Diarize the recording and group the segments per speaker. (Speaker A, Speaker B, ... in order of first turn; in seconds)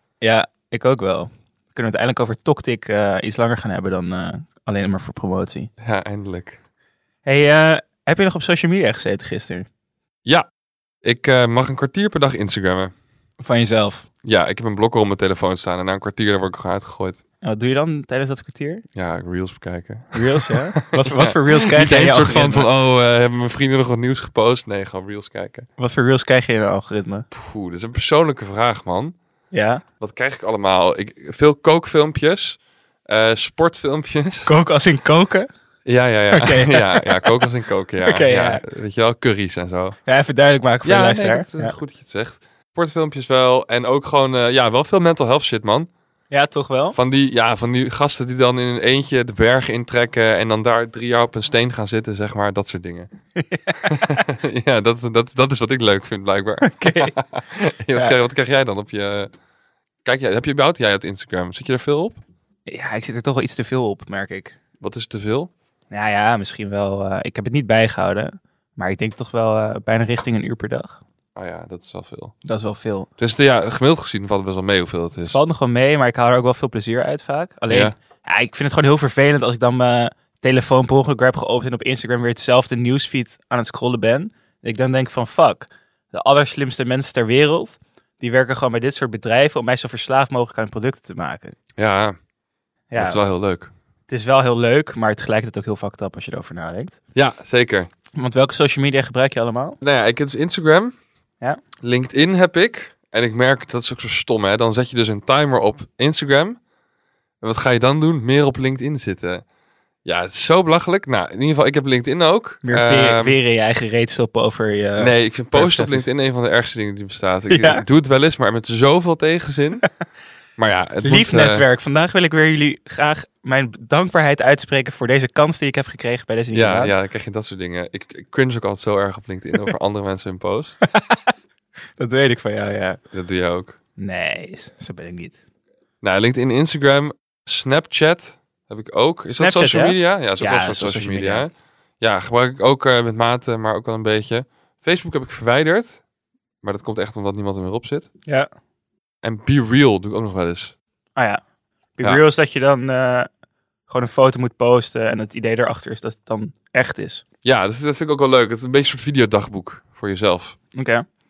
Speaker A: 0.2-5.7, 7.2-9.7, 13.4-14.1, 17.4-18.8, 20.1-22.7, 25.8-27.2, 29.5-29.8, 34.5-35.5, 36.3-37.5, 38.0-38.6, 40.0-41.8, 46.3-47.0, 53.4-54.2, 56.6-57.1, 62.7-64.6, 65.9-71.0, 72.4-73.1, 75.2-91.5, 92.9-93.2, 94.1-97.0, 98.2-99.8, 112.6-116.1, 117.5-117.8, 121.0-126.9, 130.9-131.3, 132.0-133.0, 134.0-135.4, 139.3-141.5, 152.0-153.3, 153.9-157.2, 160.7-161.0
Speaker B: 5.8-6.6, 11.0-12.9, 14.2-17.2, 18.9-25.7, 27.3-29.1, 30.0-32.6, 33.1-34.5, 35.9-40.0, 40.8-45.9, 46.9-53.1, 53.9-59.3, 60.0-62.2, 64.8-65.5, 71.3-72.3, 73.2-75.4, 77.7-77.9, 91.8-92.2, 93.0-93.7, 97.1-97.9, 99.8-100.9, 101.8-106.6, 107.4-109.4, 110.0-113.4, 115.0-119.8, 120.6-121.6, 126.5-130.8, 133.1-133.8, 136.0-146.0, 146.6-148.1, 149.2-150.7, 157.4-160.6